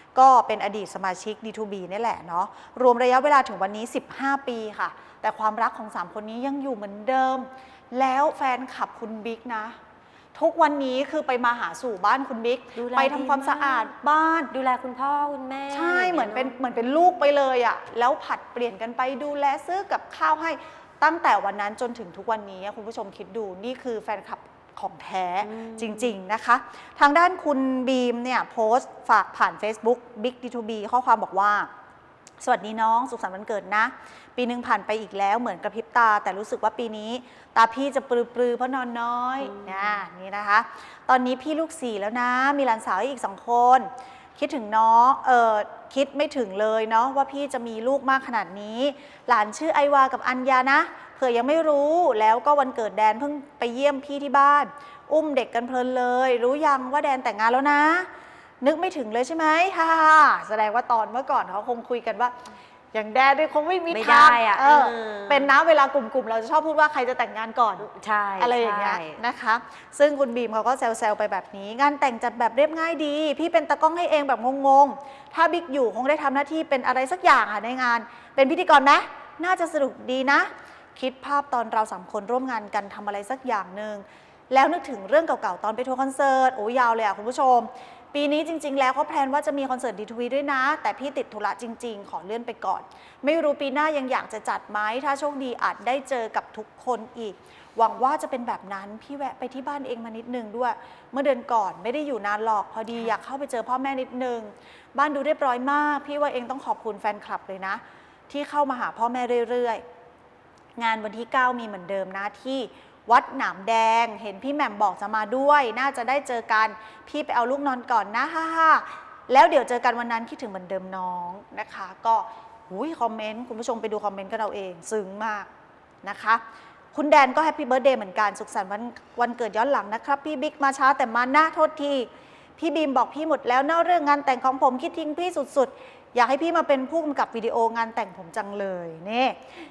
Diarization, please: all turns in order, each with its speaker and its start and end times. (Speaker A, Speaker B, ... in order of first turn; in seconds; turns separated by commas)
Speaker A: 0.1-9.8, Speaker A: 10.3-14.5, Speaker B: 12.7-13.9, Speaker B: 14.5-16.5, Speaker A: 15.7-31.7, Speaker B: 25.4-26.2, Speaker A: 32.4-58.1, Speaker B: 39.4-40.0, Speaker A: 58.6-62.3, Speaker A: 62.9-67.9, Speaker B: 63.9-65.5, Speaker B: 67.8-69.2, Speaker A: 68.4-109.8, Speaker A: 110.8-125.5, Speaker A: 126.0-126.4, Speaker A: 126.9-139.4